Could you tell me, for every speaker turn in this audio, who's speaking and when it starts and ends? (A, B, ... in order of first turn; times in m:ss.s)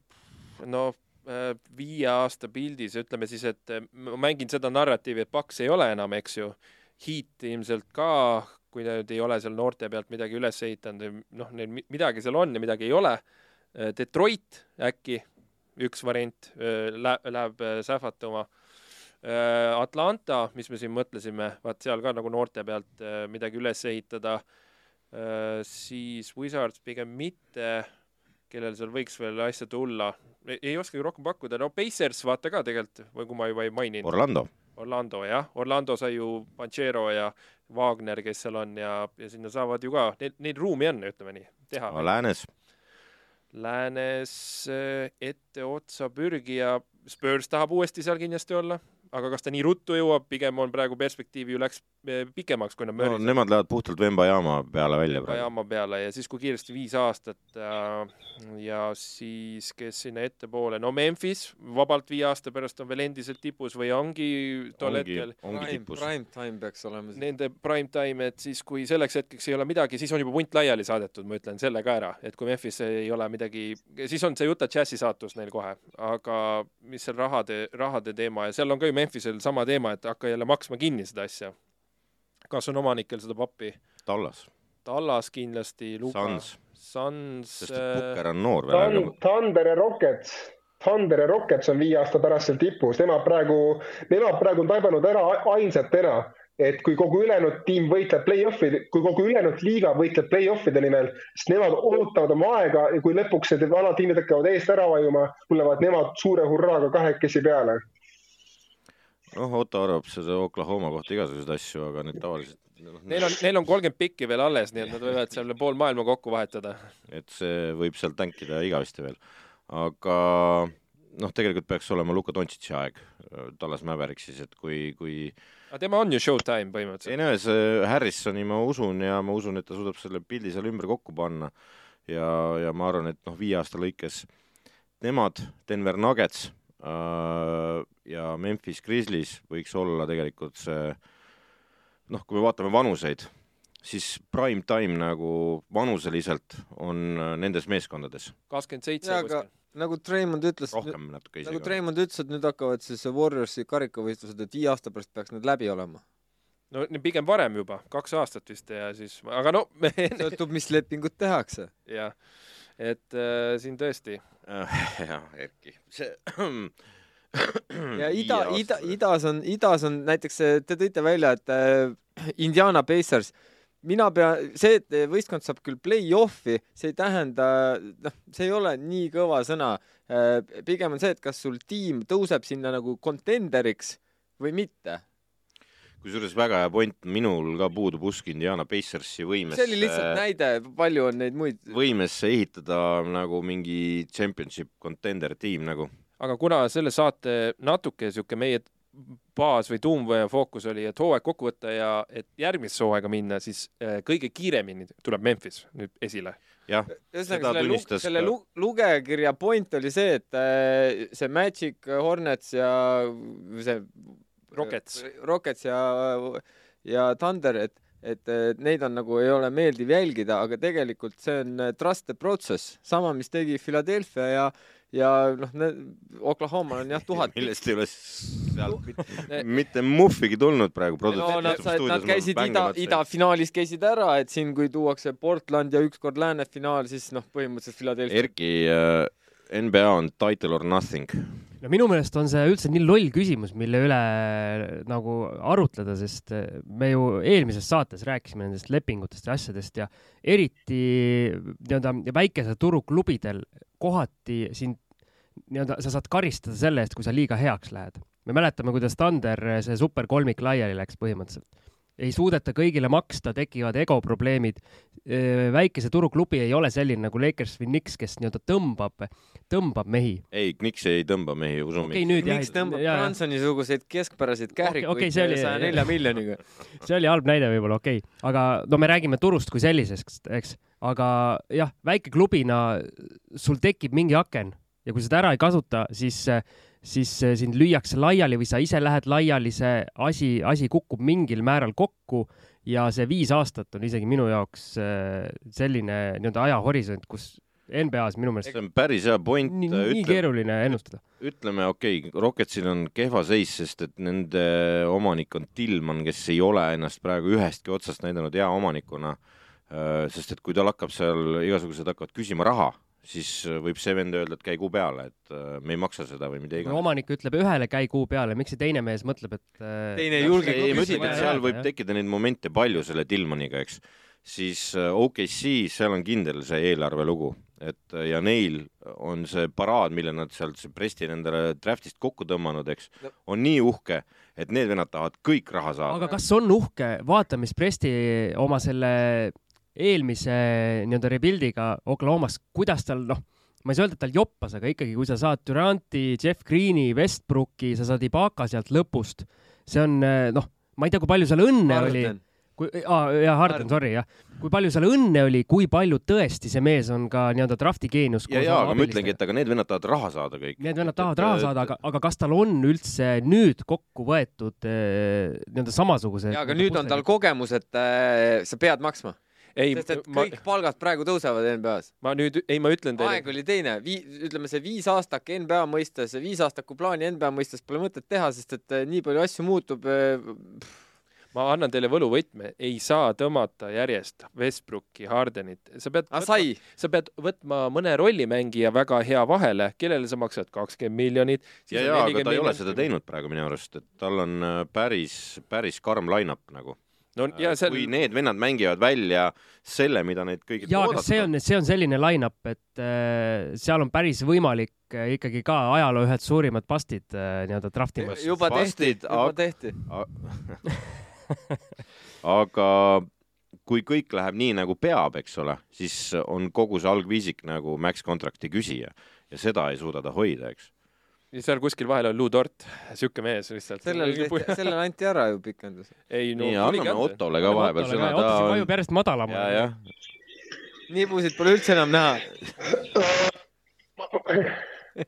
0:00.6-0:13.2 A
0:13.8-0:15.2 A
0:15.8-0:18.5 A
0:19.2-0:24.4 A
0:25.1-0:27.9 A
0:28.5-0:34.1 A
0:34.0-0:34.5 B
0:34.7-0:42.1 A
0:41.9-0:42.5 B
0:43.5-0:53.4 A
0:53.0-0:55.5 B
0:55.2-1:05.4 A
1:04.8-1:06.1 B
1:05.5-1:07.2 C
1:07.2-1:21.6 A
1:22.5-1:23.8 A
1:24.1-1:24.5 B
1:24.9-1:28.2 A
1:26.1-1:26.6 B
1:27.6-1:29.1 B
1:28.7-1:47.8 D
1:49.3-1:53.4 B
1:53.1-1:56.9 A
1:57.1-2:05.4 B
2:05.7-2:07.1 A
2:07.1-2:11.5 B
2:12.1-2:14.3 B
2:15.0-2:21.0 B
2:22.1-2:28.4 B
2:28.5-2:29.5 A
2:29.0-2:36.0 C
2:30.7-2:31.7 B
2:36.7-2:40.4 A
2:40.2-2:41.7 C
2:41.9-2:42.2 A
2:42.8-2:44.2 A
2:44.5-2:46.8 B
2:47.3-2:49.0 B
2:48.0-3:05.0 C
3:06.0-3:10.2 B
3:09.5-3:11.8 C
3:11.7-3:15.9 B
3:16.2-3:26.4 A
3:26.7-3:28.3 B
3:26.9-3:47.5 C
3:34.5-3:35.0 A
3:47.1-3:53.0 B
3:51.1-3:58.3 C
3:51.2-3:51.6 A
3:58.1-4:01.4 B
4:01.6-4:14.8 E
4:15.5-4:21.5 E
4:22.0-4:30.2 E
4:30.3-4:32.5 B
4:31.8-4:33.1 E
4:32.2-4:36.4 C
4:34.6-4:36.0 E
4:36.8-4:58.6 E
4:58.4-5:09.2 B
4:59.4-5:01.0 E
5:09.7-5:16.9 B
5:16.6-5:21.7 E
5:20.0-5:21.4 C
5:20.3-5:36.0 B
5:20.5-5:21.3 A
5:35.9-5:59.2 E
5:51.7-5:52.2 C
5:53.5-5:53.7 C
5:58.3-6:01.7 B
6:00.6-6:07.0 E
6:06.3-6:09.2 C
6:09.6-6:10.4 A
6:09.7-6:11.9 C
6:12.0-6:13.3 A
6:13.0-6:20.7 C
6:21.3-6:32.8 A
6:26.1-6:26.6 C
6:31.7-6:36.8 B
6:37.2-6:37.9 A
6:37.4-6:41.3 B
6:40.6-6:48.6 E
6:48.0-6:49.8 C
6:48.1-6:50.6 B
6:52.2-6:53.1 B
6:53.6-7:00.7 B
7:01.3-7:04.7 A
7:03.8-7:05.9 C
7:06.1-7:07.2 A
7:06.4-7:08.7 B
7:07.4-7:09.7 E
7:09.3-7:09.8 B
7:10.9-7:12.3 C
7:12.8-7:13.4 D
7:14.0-7:14.6 D